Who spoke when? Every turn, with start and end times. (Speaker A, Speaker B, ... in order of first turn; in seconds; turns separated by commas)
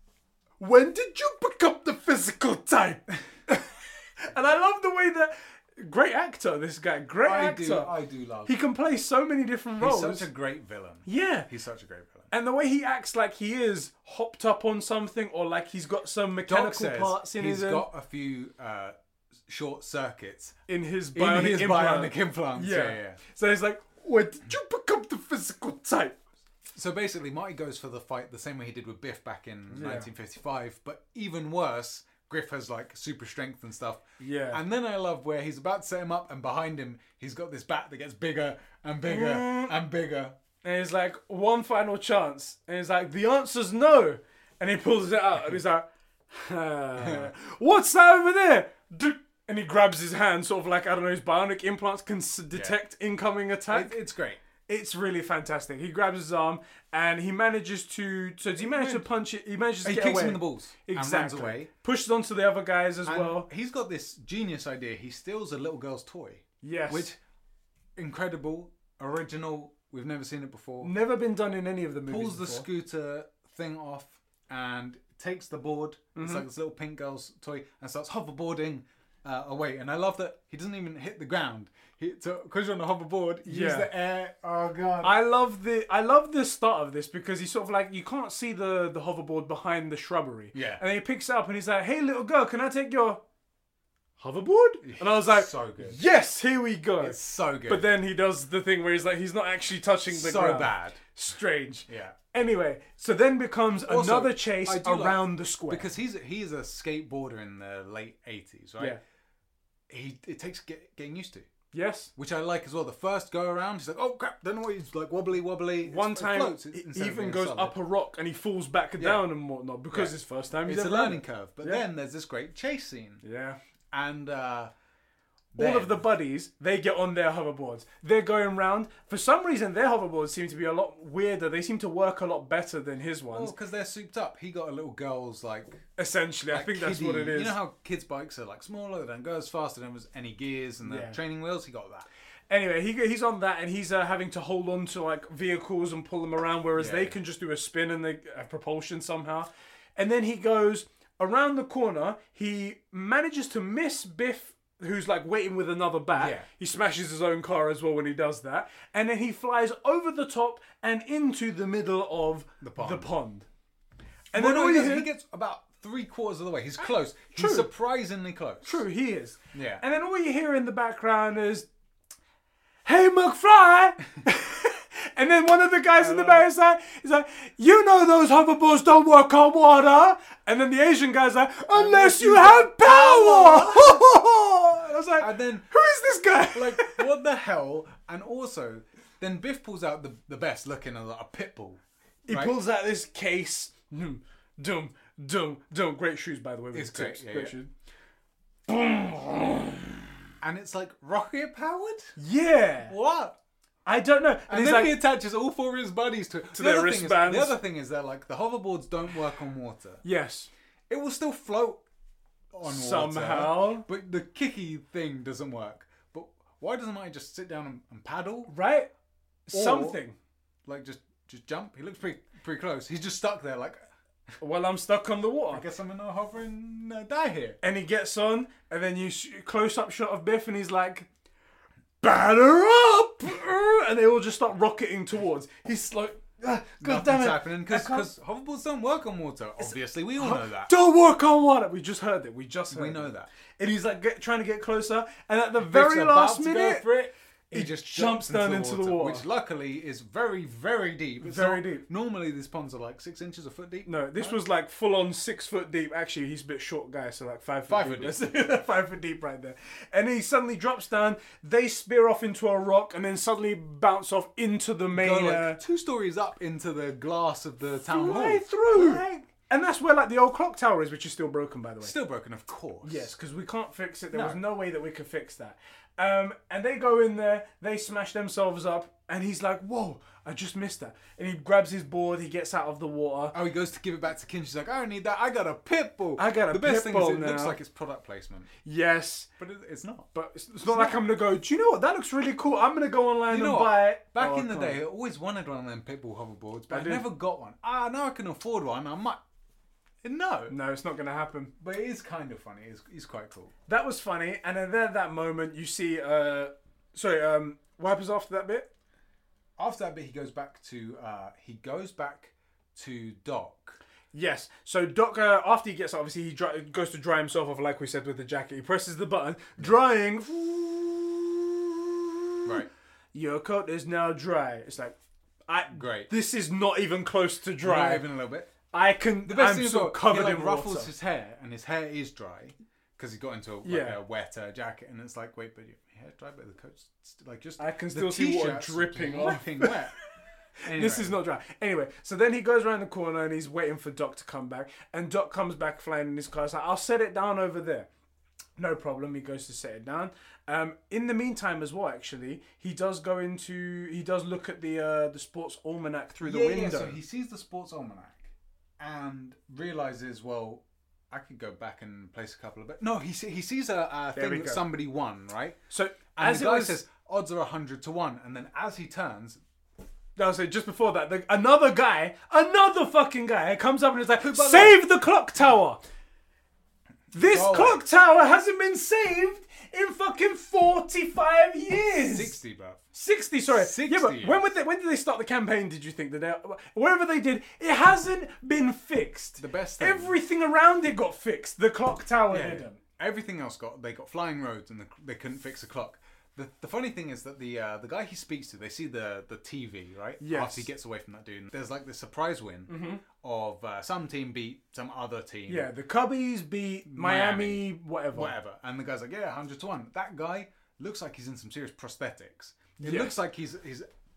Speaker A: 0.6-7.9, Speaker B: 7.2-8.6, Speaker A: 8.5-10.3, Speaker B: 9.8-12.3, Speaker A: 11.1-11.5, Speaker A: 12.3-17.9, Speaker B: 16.5-18.9, Speaker B: 19.5-20.6, Speaker A: 20.7-26.2, Speaker B: 21.1-23.2, Speaker B: 26.7-40.4, Speaker A: 29.7-30.1, Speaker A: 34.2-34.6, Speaker A: 39.0-39.8, Speaker A: 40.6-54.0, Speaker B: 47.0-47.3, Speaker B: 53.7-54.4, Speaker A: 54.6-63.5, Speaker B: 58.6-59.1, Speaker B: 59.8-61.7, Speaker B: 63.1-67.2, Speaker A: 66.6-67.1, Speaker B: 68.0-70.9, Speaker A: 70.8-72.7, Speaker B: 72.1-85.2, Speaker A: 76.2-76.5, Speaker A: 83.5-83.9, Speaker A: 85.0-93.2, Speaker B: 90.5-90.8, Speaker A: 94.2-105.9, Speaker B: 94.8-96.0, Speaker B: 97.0-97.9, Speaker B: 100.1-101.0, Speaker B: 101.9-102.2, Speaker B: 103.9-109.0, Speaker B: 109.9-111.5, Speaker A: 111.7-112.1, Speaker B: 112.2-117.7, Speaker A: 115.8-121.8, Speaker B: 119.0-119.2, Speaker B: 119.9-123.2, Speaker A: 123.2-123.6, Speaker B: 123.9-124.7, Speaker B: 125.5-126.0, Speaker A: 125.6-133.5, Speaker B: 133.3-135.8, Speaker A: 136.0-137.6, Speaker B: 136.5-142.1, Speaker A: 140.8-141.2, Speaker A: 142.5-163.5, Speaker B: 146.8-147.2, Speaker B: 156.2-156.5, Speaker B: 162.6-163.1, Speaker A: 164.3-165.1, Speaker B: 164.3-168.8, Speaker A: 167.3-167.7, Speaker A: 168.6-171.7, Speaker B: 169.5-169.8, Speaker A: 172.8-187.1, Speaker B: 176.0-176.5, Speaker B: 181.7-184.1, Speaker B: 185.2-185.7, Speaker B: 186.5-192.5, Speaker A: 192.3-197.7, Speaker B: 196.7-197.6, Speaker A: 198.7-200.0, Speaker B: 200.4-202.2, Speaker A: 202.2-202.9, Speaker B: 202.9-203.4, Speaker A: 203.9-205.0, Speaker B: 204.5-210.0, Speaker A: 206.6-207.6, Speaker A: 210.0-210.5, Speaker B: 210.9-211.8, Speaker B: 212.5-218.5, Speaker A: 212.7-213.9, Speaker A: 218.5-218.9, Speaker A: 219.5-220.2, Speaker B: 219.5-220.0, Speaker B: 220.7-223.8, Speaker A: 224.4-225.6, Speaker B: 225.5-227.6, Speaker A: 227.6-231.1, Speaker A: 232.0-238.1, Speaker B: 236.8-240.7, Speaker A: 239.6-246.9, Speaker B: 242.7-243.3, Speaker B: 245.6-254.4, Speaker A: 247.5-249.3, Speaker A: 251.2-251.9, Speaker A: 253.9-265.6, Speaker B: 257.7-258.6, Speaker B: 264.9-269.3, Speaker A: 267.9-271.9, Speaker B: 271.8-273.1, Speaker A: 272.8-283.4, Speaker B: 274.1-274.4, Speaker B: 283.3-288.5, Speaker A: 286.2-287.6, Speaker A: 288.6-289.3, Speaker B: 289.4-290.1, Speaker A: 290.1-294.8, Speaker B: 290.6-291.0, Speaker B: 293.3-299.2, Speaker A: 296.7-297.0, Speaker B: 300.0-300.6, Speaker A: 300.5-301.5, Speaker B: 301.6-303.5, Speaker A: 303.7-308.7, Speaker B: 309.6-313.8, Speaker A: 314.1-322.6, Speaker A: 323.1-325.0, Speaker A: 325.5-328.1, Speaker B: 325.7-326.1, Speaker B: 327.6-328.5, Speaker A: 328.7-330.9, Speaker B: 329.3-339.9, Speaker A: 333.6-334.0, Speaker A: 337.6-339.8, Speaker B: 340.6-341.2, Speaker A: 340.7-347.9, Speaker A: 348.6-357.0, Speaker B: 356.2-365.6, Speaker A: 364.1-364.6, Speaker A: 365.7-366.8, Speaker B: 366.2-369.4, Speaker A: 370.2-375.8, Speaker B: 374.2-374.8, Speaker A: 377.1-382.4, Speaker B: 377.2-377.8, Speaker B: 382.1-382.8, Speaker A: 382.9-392.8, Speaker B: 383.4-384.5, Speaker B: 389.4-390.2, Speaker B: 392.3-405.7, Speaker A: 400.2-400.7, Speaker A: 402.7-403.0, Speaker A: 405.5-408.3, Speaker B: 406.9-413.9, Speaker A: 412.8-413.1